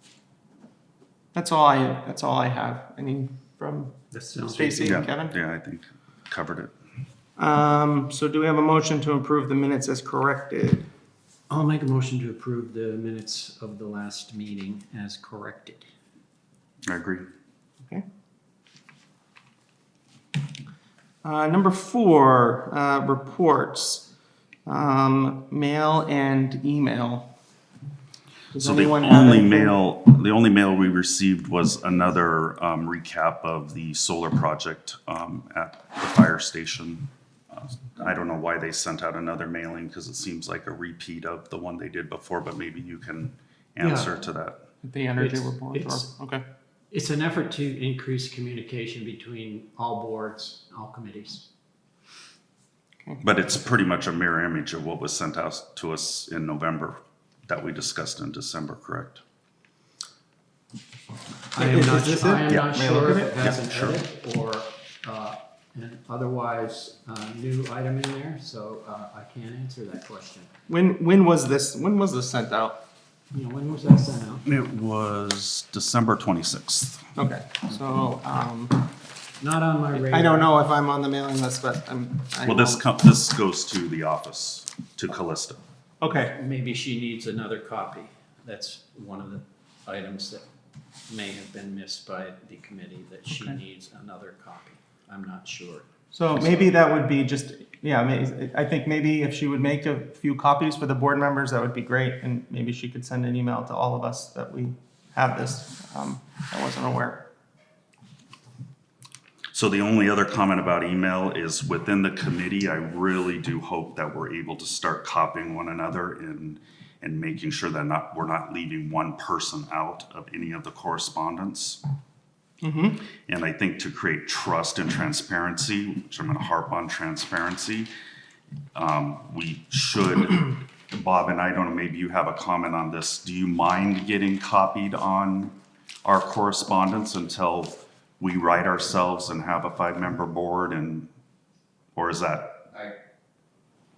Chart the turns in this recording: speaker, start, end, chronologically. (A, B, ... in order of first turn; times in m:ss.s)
0:01.3-0:05.4 A
0:04.1-0:05.0 B
0:04.8-0:06.7 C
0:07.4-0:10.9 A
0:11.5-0:15.9 B
0:16.9-0:17.2 C
0:21.2-0:24.1 A
0:24.7-0:27.3 A
0:28.5-0:29.8 A
0:28.6-0:44.6 C
0:43.8-0:44.1 A
0:44.8-0:46.4 A
0:45.2-0:46.1 B
0:46.9-0:51.5 B
0:53.2-0:59.2 C
1:01.5-1:10.5 B
1:01.6-1:03.3 A
1:02.5-1:04.0 C
1:10.7-1:12.8 A
1:13.3-1:14.5 B
1:14.4-1:17.1 C
1:17.2-1:18.9 A
1:19.4-1:20.5 B
1:19.9-1:22.8 A
1:22.4-1:25.6 C
1:26.0-1:26.4 A
1:26.1-1:30.5 B
1:31.1-1:36.7 B
1:36.1-1:47.3 A
1:49.5-2:01.8 C
2:02.6-2:03.0 A
2:03.3-2:07.9 C
2:08.8-2:15.5 C
2:16.0-2:21.1 C
2:22.0-2:22.6 C